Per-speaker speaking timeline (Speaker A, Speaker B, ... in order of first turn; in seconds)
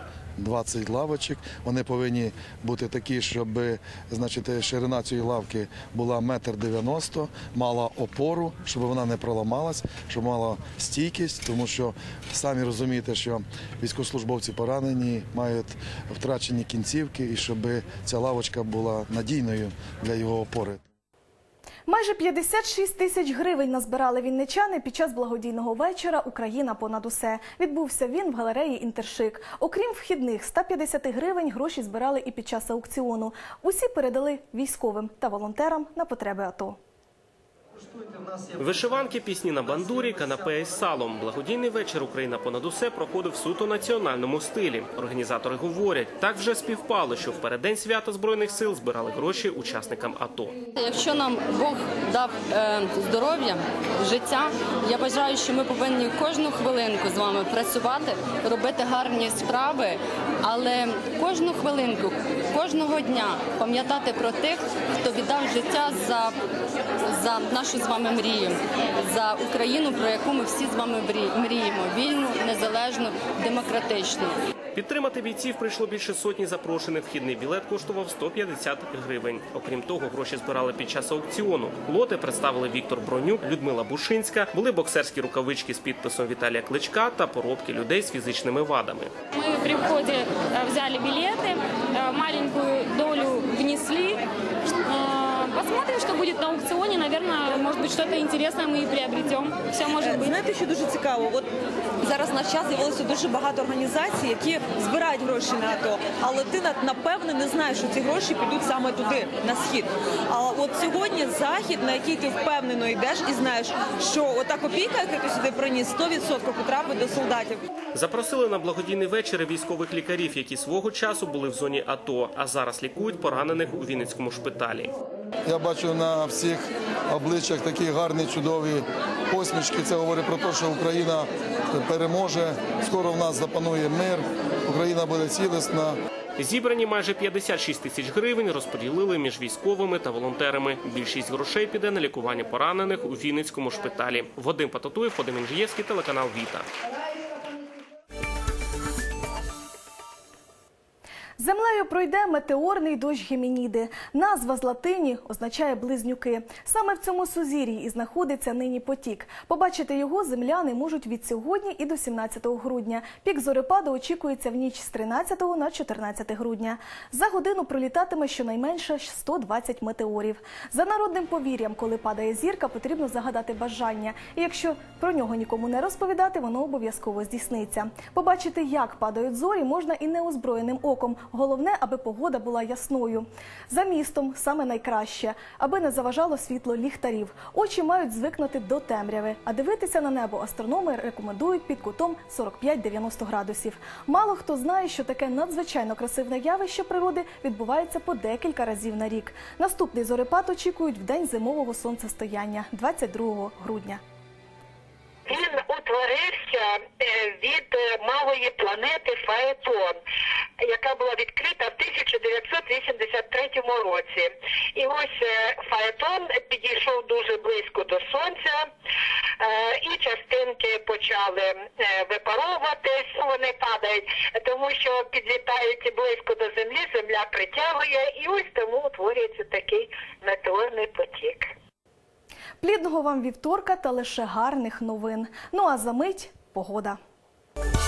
Speaker A: 0.4-20.8, 125.5-136.0
Speaker B: 21.9-36.8, 151.4-204.0, 232.6-237.0
Speaker C: 38.6-50.6, 74.8-89.1, 117.9-124.9, 136.4-146.7
Speaker D: 50.8-66.3, 67.1-74.3
Speaker E: 89.4-94.2, 94.9-100.2
Speaker F: 100.0-101.5, 102.0-117.7
Speaker G: 205.3-210.0, 210.6-218.7, 219.4-231.4